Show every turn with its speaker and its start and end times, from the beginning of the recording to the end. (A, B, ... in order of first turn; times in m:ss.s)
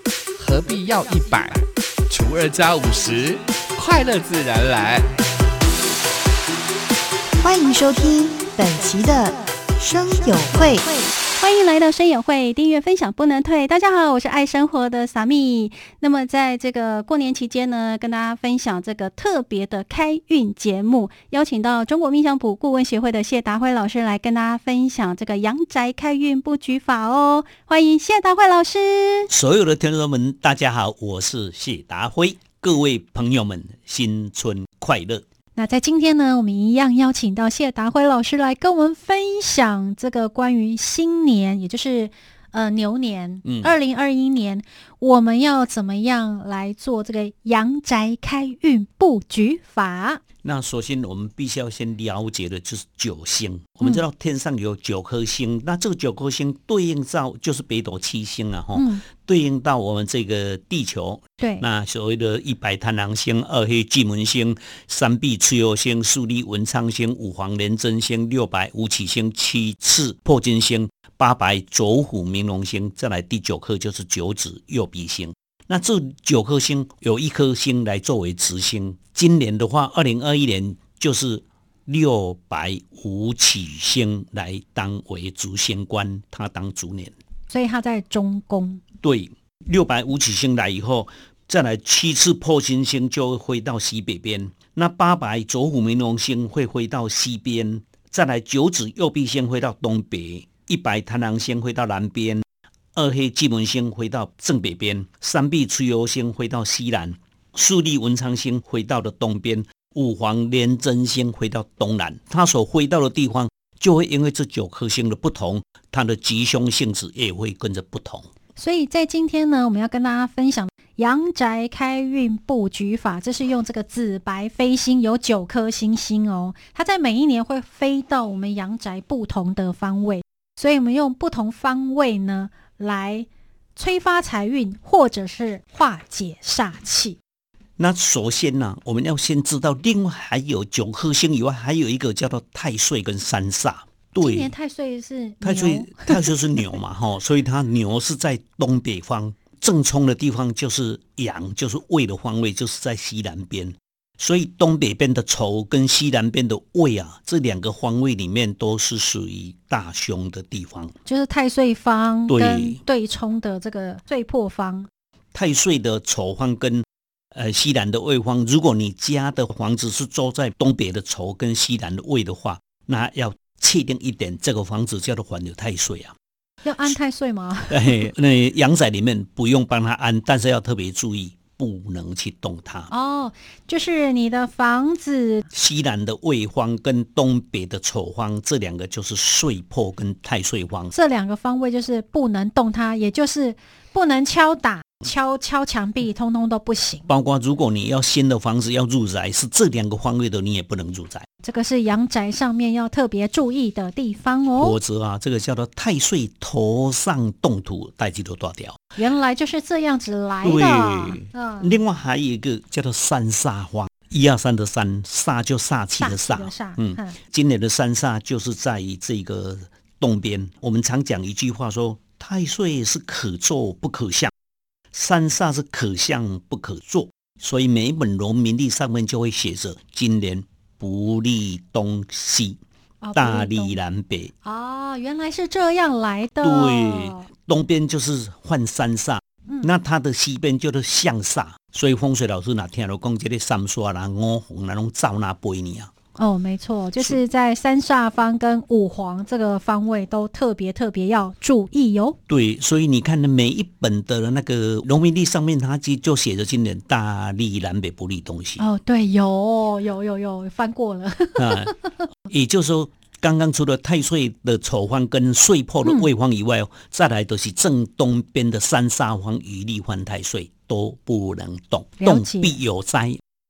0:00.4-0:05.1 A
0:07.4-0:11.1 B
0:11.4-0:29.3 C
0:29.3-0:35.2 D
0:35.6-0:50.2 C
0:43.4-0:43.8 D
0:50.4-1:27.2 D
0:58.8-0:59.0 C
1:01.4-1:01.7 C
1:27.5-1:28.8 C
1:29.0-1:58.3 D
1:58.6-2:17.2 C
2:17.8-2:24.5 D
2:24.2-2:26.8 C
2:25.4-2:41.0 D
2:41.0-2:44.9 C
2:42.3-2:42.8 D
2:45.3-2:56.2 D
2:56.6-2:58.1 C
2:57.7-3:02.9 D
3:02.9-3:05.5 C
3:05.5-3:10.9 D
3:10.9-3:17.1 C
3:17.1-3:21.3 D
3:21.4-3:24.8 C
3:24.6-3:28.8 D
3:29.0-3:31.8 C
3:30.4-3:44.3 D
3:36.0-3:37.2 C
3:44.9-3:52.6 D
3:53.0-3:53.8 C
3:53.2-3:54.3 D
3:54.4-3:57.3 C
3:56.4-4:05.9 D
4:06.2-4:12.2 C
4:12.3-4:18.6 D
4:18.6-4:22.1 C
4:21.4-4:33.2 D
4:32.0-4:32.6 C